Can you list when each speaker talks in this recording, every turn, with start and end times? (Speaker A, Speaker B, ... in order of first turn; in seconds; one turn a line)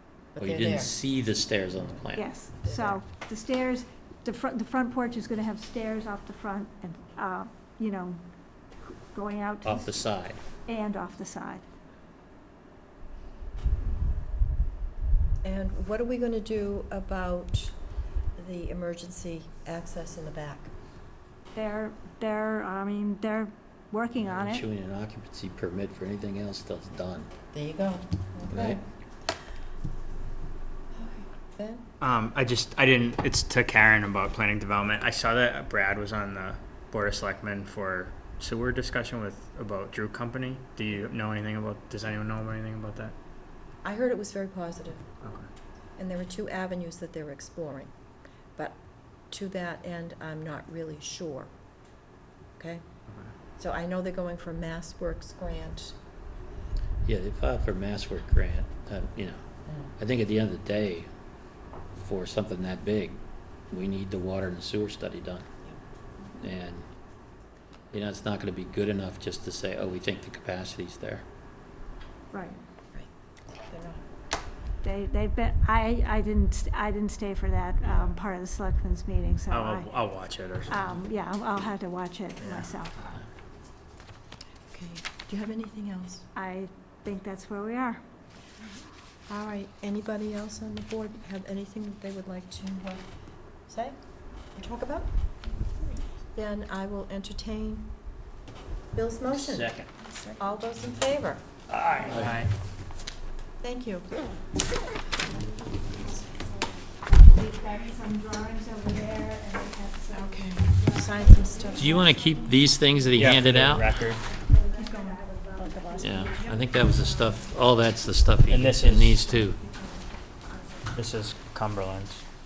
Speaker A: 0.4-0.9
Speaker B: 0.4-2.3
Speaker C: 2.1-8.2
Speaker A: 2.6-3.0
Speaker C: 8.8-9.9
Speaker B: 9.6-10.4
Speaker C: 10.7-11.6
Speaker A: 15.4-17.8
Speaker A: 18.4-20.7
Speaker C: 21.5-24.6
Speaker B: 24.2-27.3
Speaker A: 27.5-28.8
Speaker B: 28.5-28.8
Speaker A: 30.9-31.9
Speaker D: 32.0-43.1
Speaker A: 43.8-45.1
Speaker A: 46.0-47.9
Speaker A: 49.3-51.5
Speaker A: 52.6-52.8
Speaker D: 53.1-53.3
Speaker A: 53.6-56.0
Speaker B: 57.0-59.4
Speaker B: 60.0-61.1
Speaker B: 62.0-63.2
Speaker B: 63.7-65.5
Speaker B: 66.4-66.9
Speaker B: 67.9-71.2
Speaker A: 72.9-74.0
Speaker C: 74.8-79.9
Speaker D: 79.5-80.9
Speaker C: 80.7-83.1
Speaker D: 82.4-82.7
Speaker A: 84.7-86.3
Speaker C: 86.3-88.0
Speaker A: 89.3-93.0
Speaker A: 93.7-94.0
Speaker A: 94.5-95.1
Speaker A: 96.3-97.9
Speaker A: 98.9-99.7
Speaker B: 99.3-99.9
Speaker A: 100.3-101.4
Speaker D: 101.7-102.5
Speaker B: 101.9-102.4
Speaker A: 103.6-104.1
Speaker C: 105.9-106.5
Speaker C: 107.1-112.7
Speaker A: 110.1-112.0
Speaker B: 111.8-113.9
Speaker D: 113.2-114.2
Speaker C: 114.2-117.5
Speaker B: 116.0-119.6
Speaker D: 118.5-119.2
Speaker D: 120.9-122.2